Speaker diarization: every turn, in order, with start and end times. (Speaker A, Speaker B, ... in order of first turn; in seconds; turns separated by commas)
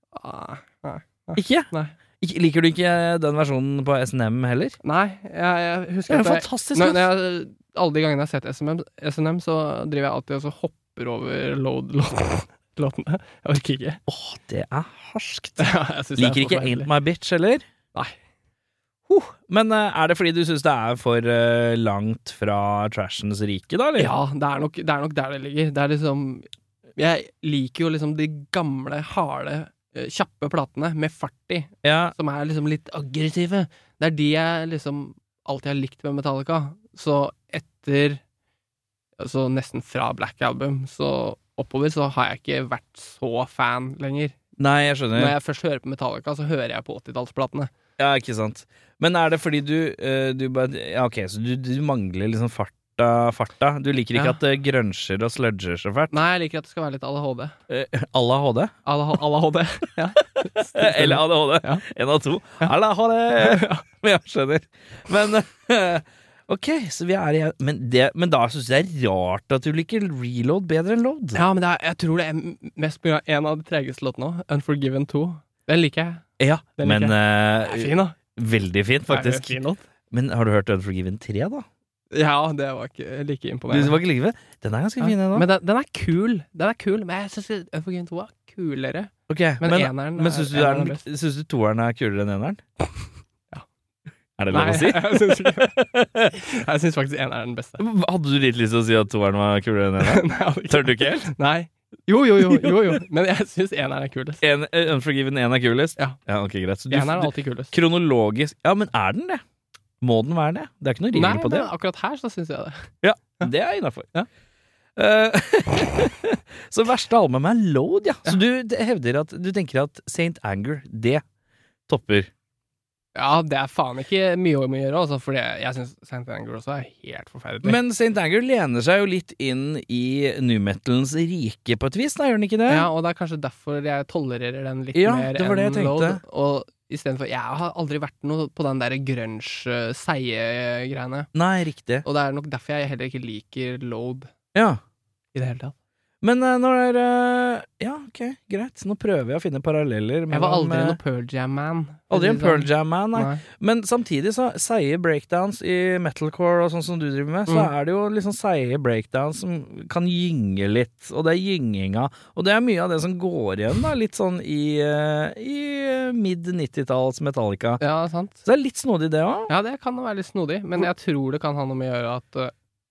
Speaker A: 0.1-1.9, Speaker B: 1.4-1.7, Speaker B: 2.2-4.8, Speaker A: 4.8-14.0, Speaker B: 6.1-7.1, Speaker B: 14.1-17.6, Speaker A: 15.6-16.9, Speaker B: 19.1-24.1, Speaker A: 24.0-38.2, Speaker B: 31.8-32.1, Speaker A: 39.2-44.4, Speaker B: 44.6-45.4, Speaker A: 45.1-47.7, Speaker B: 48.0-56.1, Speaker A: 54.1-54.4, Speaker A: 56.1-57.6, Speaker B: 57.7-58.7, Speaker A: 58.9-61.9, Speaker B: 60.8-71.4, Speaker A: 63.4-63.9, Speaker A: 71.3-76.2, Speaker B: 76.4-79.6, Speaker A: 76.8-78.2, Speaker A: 79.1-79.8, Speaker B: 80.1-81.7, Speaker A: 82.1-84.0, Speaker B: 83.7-85.5, Speaker A: 85.0-91.0, Speaker B: 89.3-92.6, Speaker B: 94.4-96.3, Speaker A: 94.5-95.8, Speaker A: 96.3-97.8, Speaker B: 97.8-101.3, Speaker A: 100.0-104.4, Speaker B: 102.4-103.0, Speaker B: 104.4-109.4, Speaker A: 106.9-107.7, Speaker B: 110.0-111.7, Speaker A: 111.1-113.5, Speaker B: 113.0-114.1, Speaker B: 115.0-121.2, Speaker B: 121.9-122.3, Speaker A: 123.2-127.8, Speaker B: 127.6-132.9, Speaker A: 132.7-141.3, Speaker B: 134.9-136.2, Speaker B: 141.3-142.1, Speaker A: 142.0-144.3, Speaker B: 144.5-144.8, Speaker A: 145.3-145.7, Speaker B: 146.2-151.0, Speaker A: 150.3-153.4, Speaker B: 152.1-167.8, Speaker A: 167.8-168.4, Speaker B: 168.4-169.5, Speaker A: 169.5-172.5